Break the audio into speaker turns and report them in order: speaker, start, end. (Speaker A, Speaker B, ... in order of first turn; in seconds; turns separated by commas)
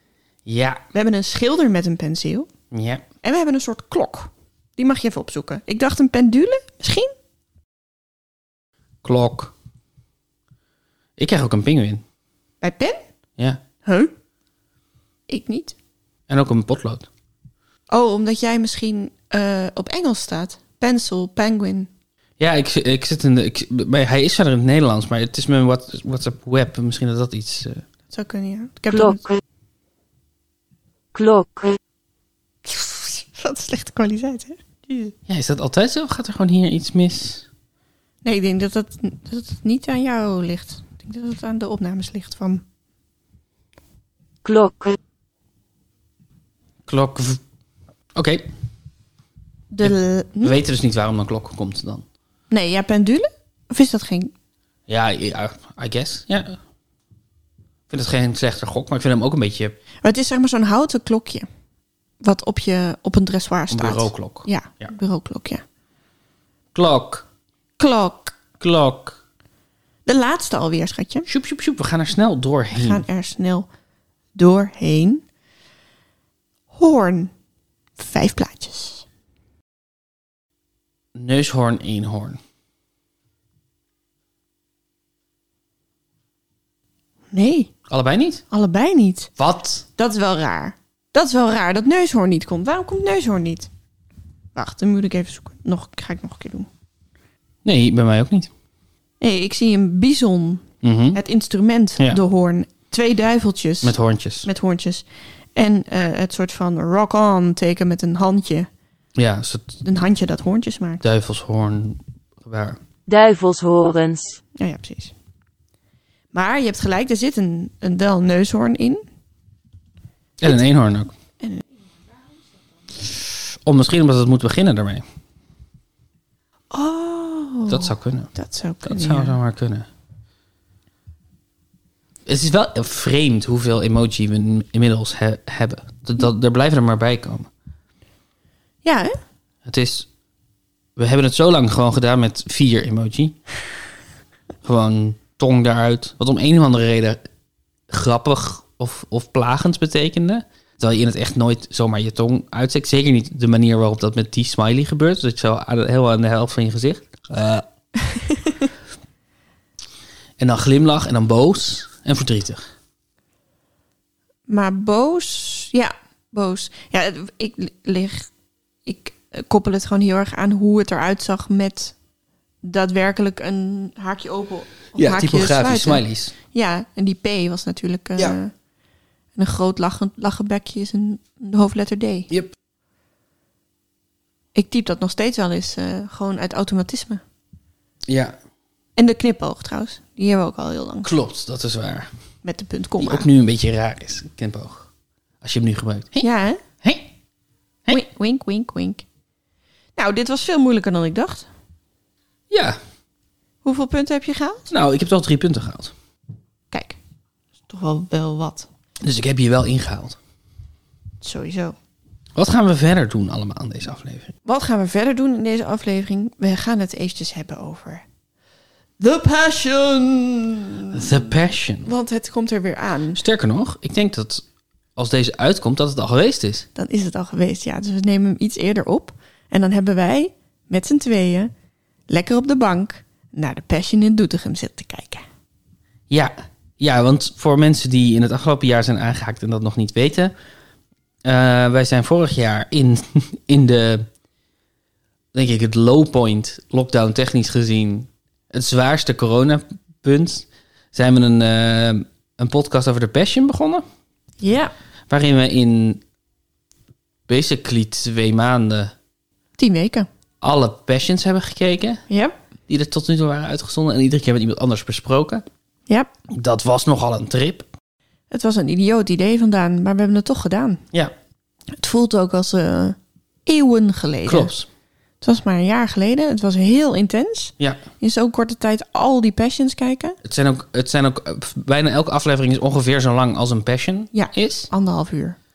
Speaker A: 0.5-0.8, Speaker B: 0.9-2.5, Speaker A: 2.7-3.0, Speaker B: 3.2-7.1, Speaker A: 9.0-9.5, Speaker A: 11.2-12.0, Speaker B: 12.6-13.0, Speaker B: 13.8-14.1, Speaker B: 15.3-15.7, Speaker A: 16.3-17.1, Speaker B: 17.9-21.9, Speaker A: 22.4-27.8, Speaker B: 28.1-29.2, Speaker C: 28.9-29.4, Speaker C: 31.1-31.8, Speaker B: 32.6-35.1, Speaker A: 35.3-37.5, Speaker B: 38.2-42.6, Speaker C: 44.4-45.0, Speaker A: 46.9-47.4, Speaker A: 48.1-48.5, Speaker B: 49.7-50.5, Speaker A: 49.8-52.0, Speaker B: 52.5-54.3, Speaker A: 54.9-56.6, Speaker A: 57.9-59.8, Speaker B: 60.0-61.5, Speaker B: 62.2-65.6, Speaker A: 63.7-64.9, Speaker A: 66.7-67.2, Speaker B: 67.8-68.4, Speaker A: 68.6-69.2, Speaker B: 70.0-71.3, Speaker A: 71.3-73.0, Speaker B: 72.7-73.7, Speaker B: 74.3-75.2, Speaker B: 76.7-77.3, Speaker B: 78.0-79.0, Speaker A: 81.1-82.4, Speaker B: 87.3-87.7, Speaker A: 87.9-88.4, Speaker B: 88.5-89.3, Speaker A: 89.4-89.8, Speaker B: 90.0-93.7, Speaker B: 94.5-96.7, Speaker A: 97.6-98.5, Speaker B: 99.2-108.7, Speaker A: 100.8-101.2, Speaker A: 103.8-104.5, Speaker A: 109.2-109.8, Speaker B: 109.8-111.0, Speaker A: 111.0-112.8, Speaker C: 113.1-114.4, Speaker B: 114.6-115.1, Speaker B: 116.3-119.0, Speaker A: 120.4-121.1, Speaker A: 123.6-125.0, Speaker B: 126.7-129.4, Speaker A: 127.7-129.9, Speaker A: 132.3-137.5, Speaker B: 138.8-139.1, Speaker A: 139.6-140.1, Speaker A: 141.0-143.4, Speaker A: 144.6-147.2, Speaker A: 147.9-157.6, Speaker B: 158.1-158.5, Speaker A: 160.4-162.6, Speaker B: 164.5-168.3, Speaker B: 168.8-171.9, Speaker B: 172.6-178.5, Speaker A: 174.9-176.3, Speaker B: 179.3-182.3, Speaker B: 184.5-187.2, Speaker A: 188.1-188.3, Speaker B: 189.0-191.1, Speaker A: 191.0-192.1, Speaker B: 192.4-193.3, Speaker A: 193.0-194.9, Speaker A: 195.4-196.3, Speaker B: 196.2-196.6, Speaker A: 196.8-197.1, Speaker B: 197.9-199.0, Speaker B: 199.9-201.5, Speaker A: 202.5-202.8, Speaker B: 203.6-204.7, Speaker A: 204.7-205.9, Speaker B: 206.7-207.0, Speaker B: 207.7-208.7, Speaker A: 209.0-210.2, Speaker B: 211.2-211.8, Speaker A: 212.3-214.3, Speaker B: 214.4-218.0, Speaker B: 219.0-221.3, Speaker A: 220.9-221.9, Speaker B: 221.8-223.2, Speaker A: 223.1-224.4, Speaker A: 225.0-226.7, Speaker B: 226.8-231.5, Speaker B: 232.1-235.2, Speaker A: 236.1-240.3, Speaker A: 241.2-244.1, Speaker A: 245.3-253.8, Speaker B: 254.4-254.7, Speaker A: 255.1-256.0, Speaker A: 257.3-258.9, Speaker B: 259.6-260.1, Speaker A: 260.4-262.0, Speaker B: 262.1-262.4, Speaker A: 262.7-265.4, Speaker A: 266.3-267.7, Speaker B: 268.3-270.8, Speaker B: 271.7-274.5, Speaker A: 274.2-274.7, Speaker B: 275.2-280.2, Speaker A: 280.2-284.7, Speaker B: 284.1-285.4